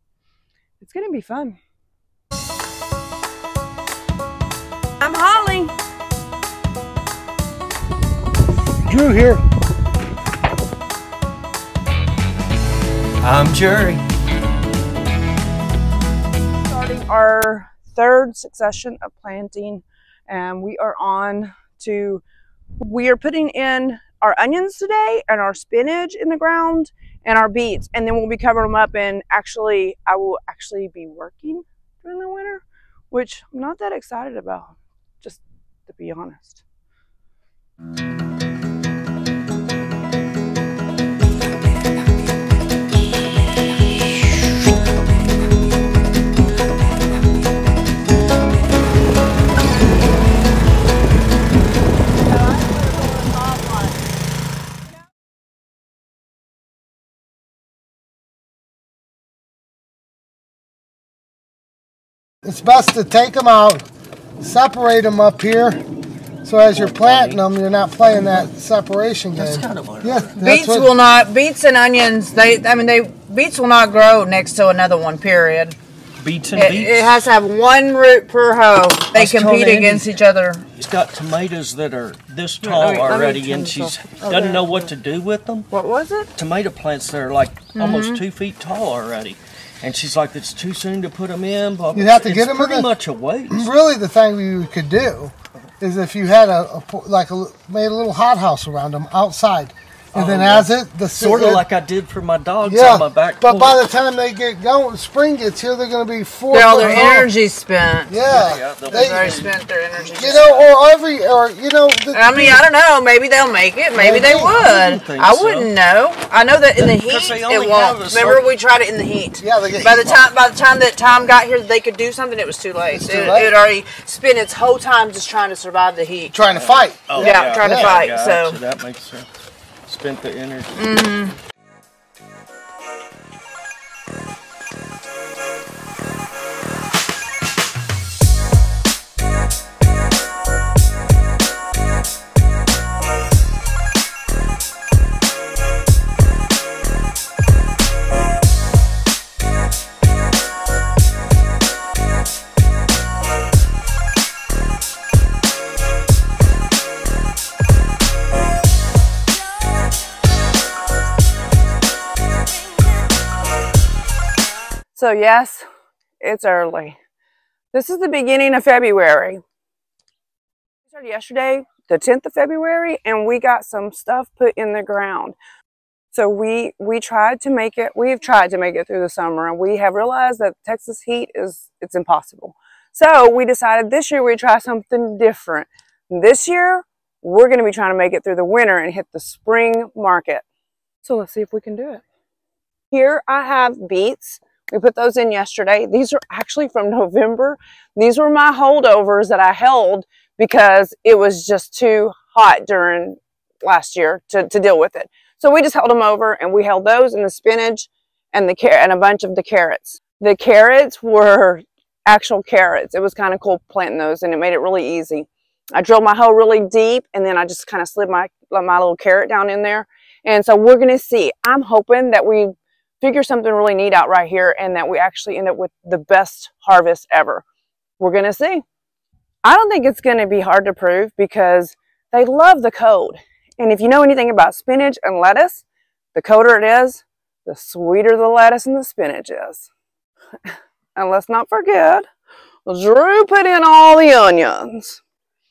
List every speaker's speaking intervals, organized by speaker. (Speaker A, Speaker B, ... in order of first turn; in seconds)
Speaker A: 0.8-1.6, 5.0-5.7, 16.6-22.2, 22.8-36.6, 82.8-83.8, 85.7-86.2, 164.9-165.7, 166.2-167.0, 167.7-169.4, 170.9-175.4, 176.1-190.4, 191.0-192.0, 192.9-227.4, 228.0-228.6, 229.4-235.6, 236.1-239.7, 240.9-242.0, 242.7-245.0
Speaker B: 8.9-9.4, 62.4-63.8, 64.4-65.8, 66.4-70.9, 91.9-92.9, 93.5-101.6, 102.6-107.3, 108.1-109.3, 110.1-112.6, 113.9-114.6, 119.4-120.3, 122.9-123.6, 126.3-128.0
Speaker C: 13.2-14.0, 66.7-67.4, 68.1-68.5, 69.3-70.4, 76.2-77.2, 79.1-80.1, 80.8-85.7, 86.3-93.7, 100.1-103.9, 106.8-107.1, 108.2-110.7, 114.3-115.8, 116.7-118.5, 126.5-129.3, 129.8-131.0
Speaker D: 52.4-53.9, 70.4-75.8, 76.5-80.7, 82.7-83.5, 87.8-88.2, 106.5-108.2, 108.8-110.7, 112.1-126.3, 127.1-128.6, 130.8-131.3